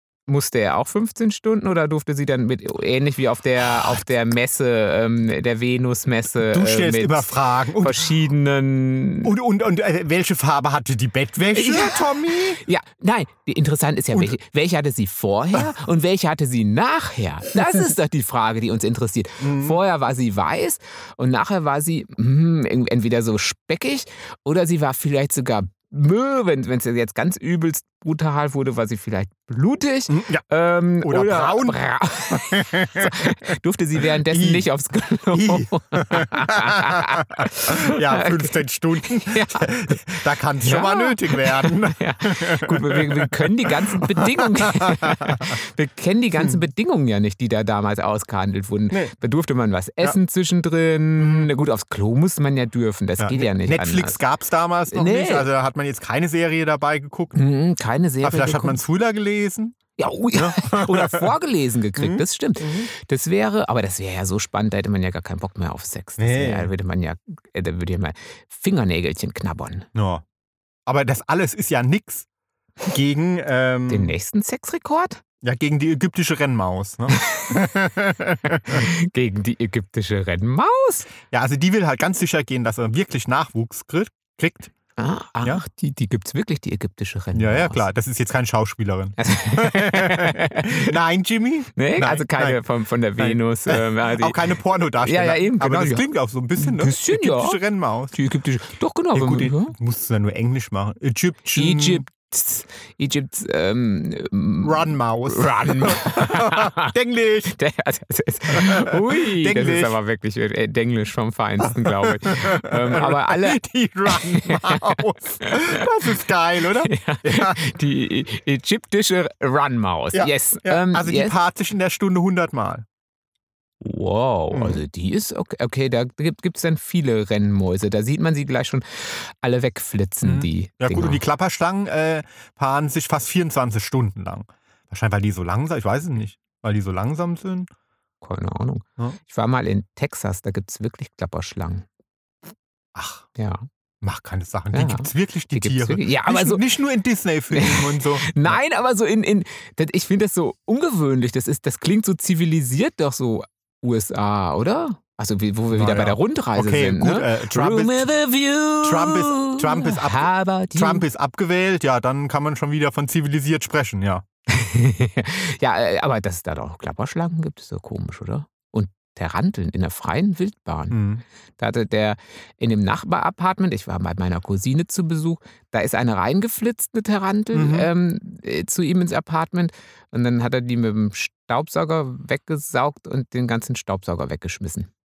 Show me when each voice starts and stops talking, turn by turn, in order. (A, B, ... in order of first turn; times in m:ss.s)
0:00.3-0:09.3 A
0:06.4-0:08.0 B
0:09.2-0:12.6 B
0:11.5-0:38.5 A
0:19.4-0:19.8 B
0:30.1-0:30.4 B
0:31.0-0:31.8 B
0:32.3-0:33.5 B
0:34.1-0:34.7 B
0:35.3-0:45.6 B
0:39.1-0:39.7 A
0:40.6-0:54.2 A
0:51.2-0:51.5 B
0:53.2-0:57.4 B
0:54.9-0:55.5 A
0:57.3-0:58.8 A
0:58.2-0:59.8 B
1:00.0-1:09.9 A
1:00.3-1:01.3 B
1:02.0-1:02.9 B
1:06.2-1:06.7 B
1:09.9-1:10.2 B
1:10.8-1:12.2 B
1:12.9-1:14.1 B
1:13.9-1:15.2 A
1:15.4-1:18.9 B
1:17.1-1:17.6 A
1:18.7-1:21.1 A
1:21.3-1:24.7 B
1:25.0-1:27.8 A
1:27.3-1:32.6 B
1:29.2-1:30.9 A
1:31.7-1:36.0 A
1:33.2-1:38.1 B
1:36.6-1:37.6 A
1:38.1-1:39.7 A
1:39.1-1:42.0 B
1:41.5-1:46.9 A
1:44.6-1:47.5 B
1:47.4-1:55.8 A
1:48.5-1:50.0 B
1:51.6-1:57.6 B
1:56.8-2:01.3 A
2:00.1-2:02.8 B
2:03.8-2:11.2 A
2:04.5-2:04.8 B
2:10.2-2:17.7 B
2:18.2-2:21.8 A
2:22.9-2:23.3 B
2:23.4-2:23.6 A
2:24.0-2:28.6 B
2:24.7-2:26.6 A
2:27.5-2:41.0 A
2:35.7-2:38.1 B
2:38.8-2:44.2 B
2:44.5-2:51.0 A
2:50.9-2:51.2 B
2:51.6-3:04.9 A
2:57.5-2:57.9 B